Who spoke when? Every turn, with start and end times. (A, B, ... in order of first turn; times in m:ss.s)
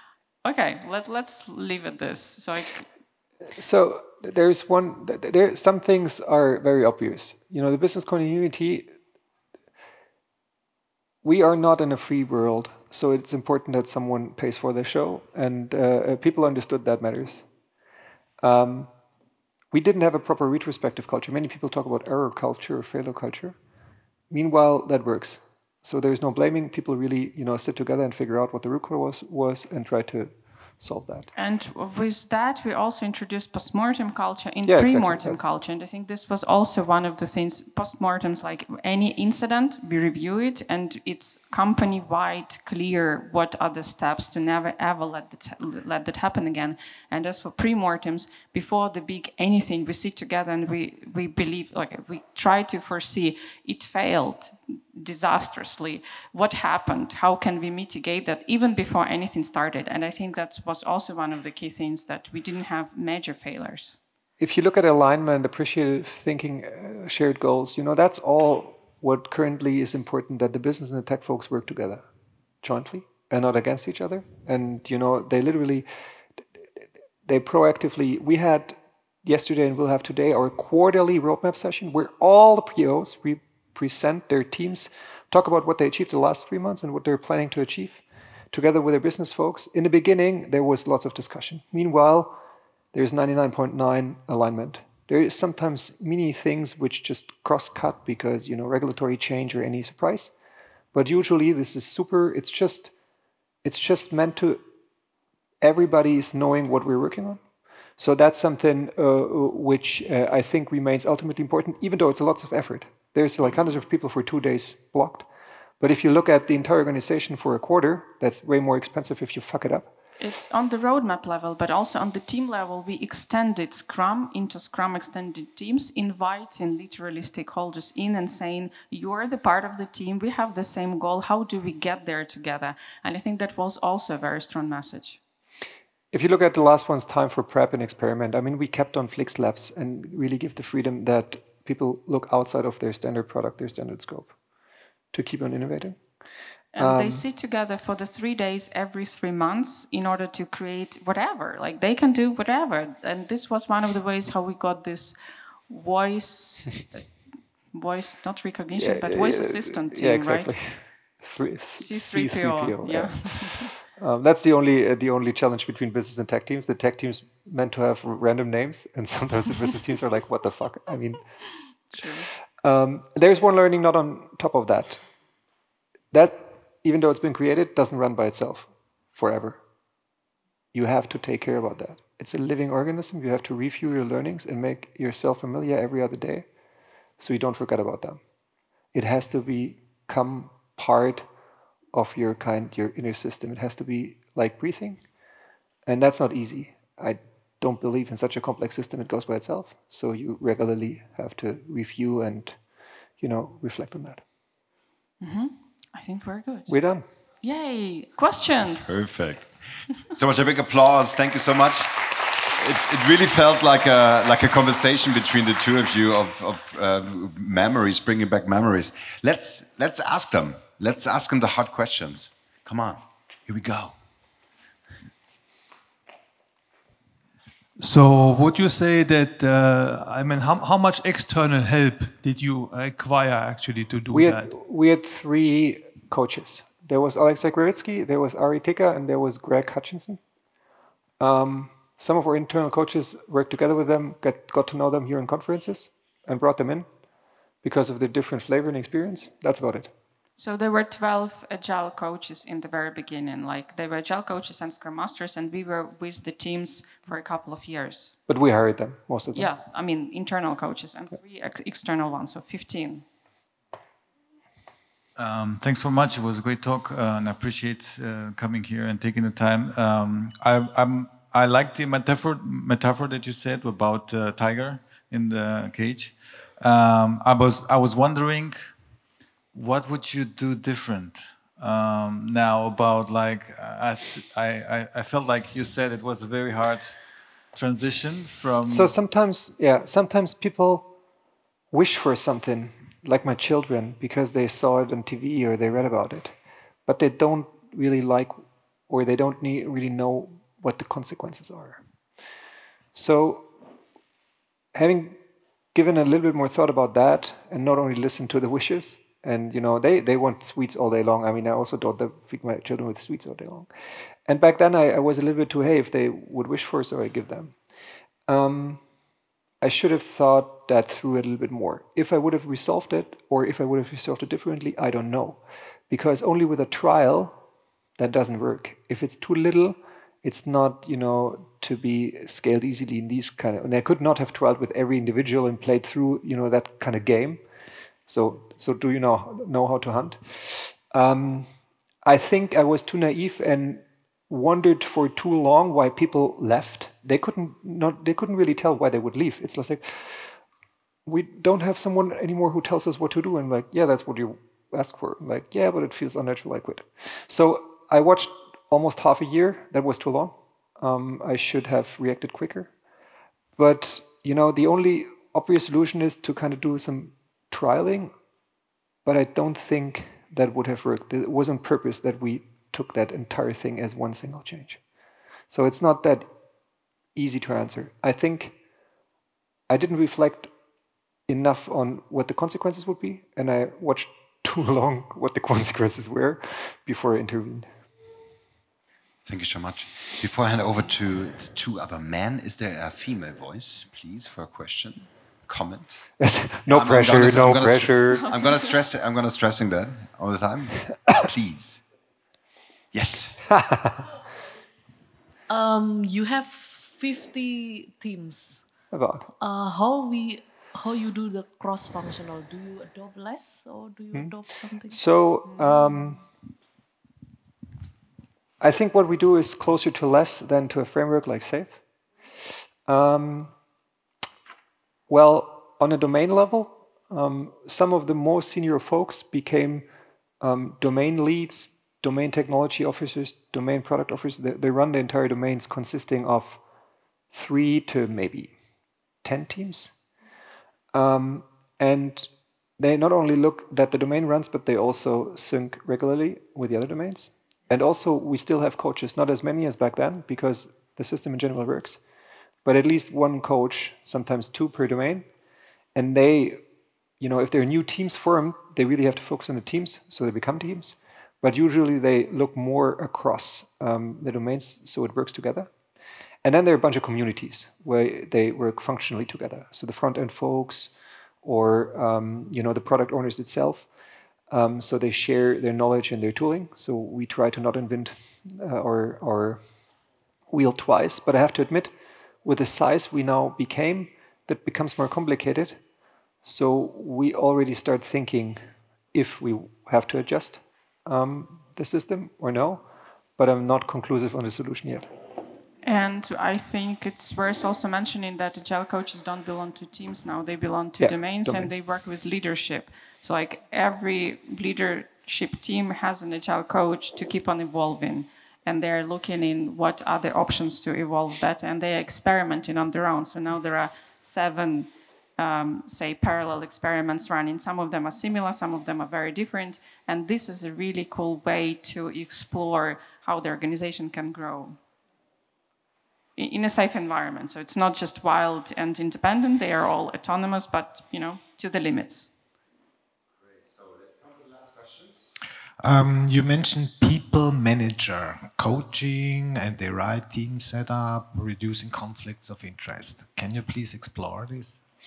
0:00.4-0:02.9 A
0:03.5-0:08.9 B
0:11.2-0:17.5 B
0:18.4-0:18.9 B
0:19.7-0:23.6 B
0:24.3-0:31.3 B
0:31.3-1:04.0 A
0:34.6-0:35.4 B
1:04.4-1:12.0 B
1:12.6-1:15.8 B
1:17.2-1:32.4 B
1:32.9-1:40.3 B
1:40.9-1:42.9 B
1:43.6-1:44.6 B
1:45.6-1:47.4 B
1:48.0-1:55.3 B
1:55.8-1:59.9 B
2:00.2-2:15.2 A
2:16.1-2:24.3 B
2:25.1-2:26.0 B
2:26.7-2:37.1 A
2:26.8-2:27.2 B
2:37.7-2:40.6 A
2:38.8-2:51.3 B
2:41.8-2:43.7 A
2:51.9-2:52.3 A
2:52.6-2:55.0 B
2:56.1-2:59.6 B
3:00.7-3:06.4 B
3:07.2-3:08.2 B
3:08.9-3:11.2 B
3:11.9-3:15.0 B
3:15.8-3:22.6 B
3:23.2-3:24.2 B
3:25.2-3:26.8 A
3:26.7-3:27.0 B
3:27.4-3:28.9 A
3:28.8-3:44.0 C
3:47.8-3:54.5 D
3:54.1-4:00.2 B
4:01.2-4:06.9 B
4:07.6-4:09.9 B
4:10.4-4:18.1 A
4:18.3-4:19.5 B
4:19.3-4:23.0 A
4:25.2-4:38.6 E
4:39.5-4:46.9 E
4:47.5-4:48.9 E
4:48.6-4:50.9 B
4:51.7-4:56.3 B
4:56.8-4:58.4 B
4:58.9-5:01.8 B
5:02.9-5:03.5 B
5:04.7-5:05.2 B
5:05.7-5:13.7 B
5:14.2-5:17.5 B
5:18.3-5:18.8 B
5:19.6-5:27.4 B
5:28.0-5:37.4 B
5:38.1-5:41.5 B
5:42.0-5:50.3 B
5:51.0-6:02.7 B
6:03.6-6:08.1 B
6:09.0-6:14.8 B
6:15.5-6:16.3 B
6:17.1-6:18.6 B
6:19.7-6:20.5 B
6:21.3-6:27.7 B
6:29.2-6:36.0 C
6:36.2-6:38.3 B
6:36.7-6:41.8 C
6:38.3-6:38.6 A
6:42.9-6:43.5 C
6:43.5-6:44.0 B
6:45.5-6:48.7 F
6:48.9-6:49.3 B
6:49.4-6:55.0 F
6:54.1-6:56.2 B
6:58.6-7:01.8 B
7:02.8-7:03.5 B
7:05.1-7:09.9 B
7:10.4-7:16.6 B
7:17.3-7:18.5 B
7:19.2-7:19.9 B
7:20.9-7:32.0 B
7:32.6-7:35.3 B
7:35.9-7:36.6 B
7:37.2-7:45.7 B
7:46.4-7:53.9 B
7:54.5-7:59.6 B
8:00.5-8:05.8 B
8:06.4-8:08.6 B
8:09.1-8:12.8 B
8:13.4-8:15.1 B
8:15.8-8:44.8 A
8:21.0-8:21.8 B
8:46.4-8:52.3 A
8:54.1-8:54.7 C
8:55.8-9:04.8 G